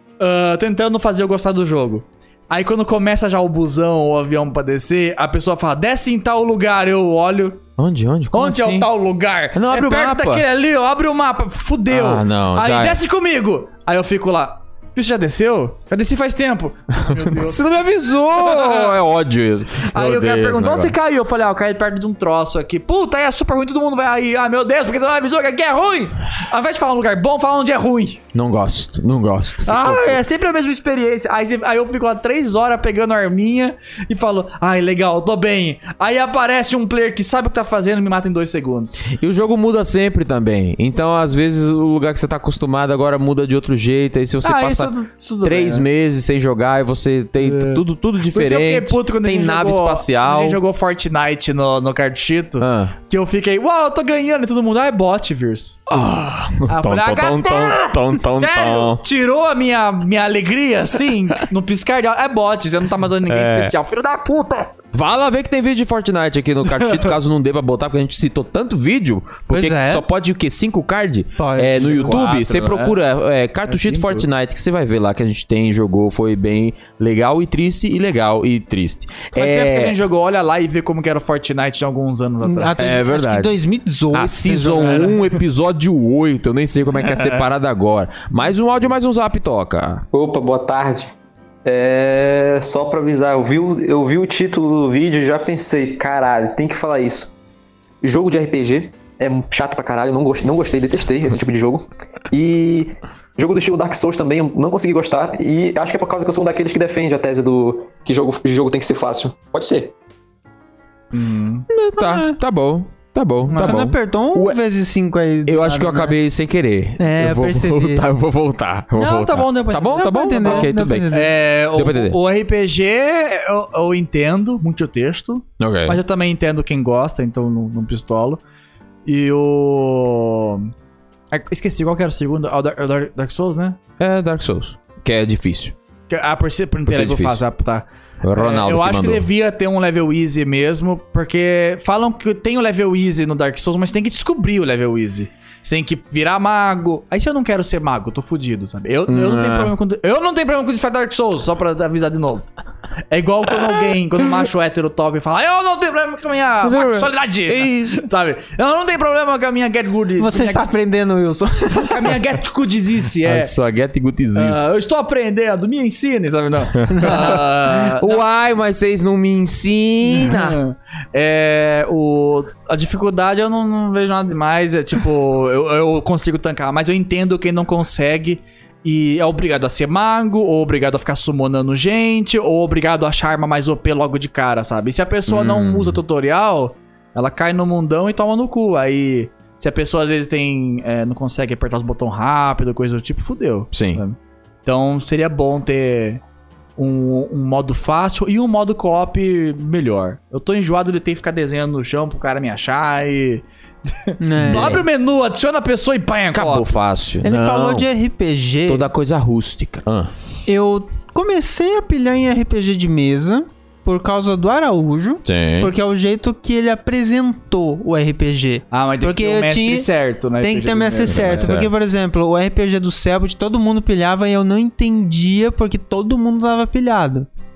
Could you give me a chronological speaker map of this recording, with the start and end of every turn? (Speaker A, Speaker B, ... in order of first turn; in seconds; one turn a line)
Speaker A: 0.2-7.6
Speaker B: 7.8-8.9
Speaker A: 8.3-17.6
Speaker B: 9.5-10.4
Speaker B: 11.9-13.0
Speaker B: 17.1-20.9
Speaker A: 18.4-18.9
Speaker A: 19.9-28.2
Speaker B: 28.3-30.2
Speaker A: 29.6-39.0
Speaker B: 39.1-44.9
Speaker A: 44.4-45.9
Speaker B: 45.4-50.6
Speaker A: 47.4-55.8
Speaker B: 52.6-52.9
Speaker B: 55.9-59.0
Speaker A: 56.6-64.7
Speaker B: 63.2-63.7
Speaker B: 64.9-80.0
Speaker A: 66.7-67.1
Speaker C: 69.5-70.0
Speaker C: 71.4-72.2
Speaker A: 71.8-73.0
Speaker A: 73.7-74.2
Speaker A: 79.3-82.7
Speaker C: 82.4-85.1
Speaker B: 82.8-83.5
Speaker B: 84.1-90.0
Speaker A: 84.8-85.3
Speaker A: 87.0-87.4
Speaker A: 88.4-88.8
Speaker D: 90.1-91.1
Speaker D: 91.6-97.3
Speaker D: 98.0-109.9
Speaker A: 111.1-111.6
Speaker B: 111.7-114.6
Speaker C: 112.0-112.3
Speaker C: 113.5-116.2
Speaker B: 115.5-121.1
Speaker C: 117.0-118.0
Speaker A: 118.9-128.4
Speaker C: 119.9-121.3
Speaker B: 121.7-122.2
Speaker B: 125.6-126.0
Speaker A: 129.1-130.7
Speaker A: 131.3-133.8
Speaker B: 134.0-135.7
Speaker A: 136.1-152.5
Speaker B: 136.8-137.4
Speaker B: 138.2-139.2
Speaker B: 149.1-149.7
Speaker A: 153.1-160.6
Speaker B: 156.6-158.0
Speaker C: 160.2-162.1
Speaker A: 161.8-163.5
Speaker B: 163.2-164.7
Speaker A: 164.3-168.2
Speaker B: 166.8-170.6
Speaker A: 170.1-196.2
Speaker B: 185.3-186.0
Speaker B: 193.7-194.0
Speaker A: 196.8-206.7
Speaker C: 204.2-204.8
Speaker B: 204.4-204.8
Speaker B: 206.3-207.9
Speaker C: 207.2-208.9
Speaker B: 208.7-210.1
Speaker C: 210.5-219.9
Speaker B: 215.2-215.7
Speaker A: 218.7-221.5
Speaker C: 220.4-227.3
Speaker B: 221.1-221.7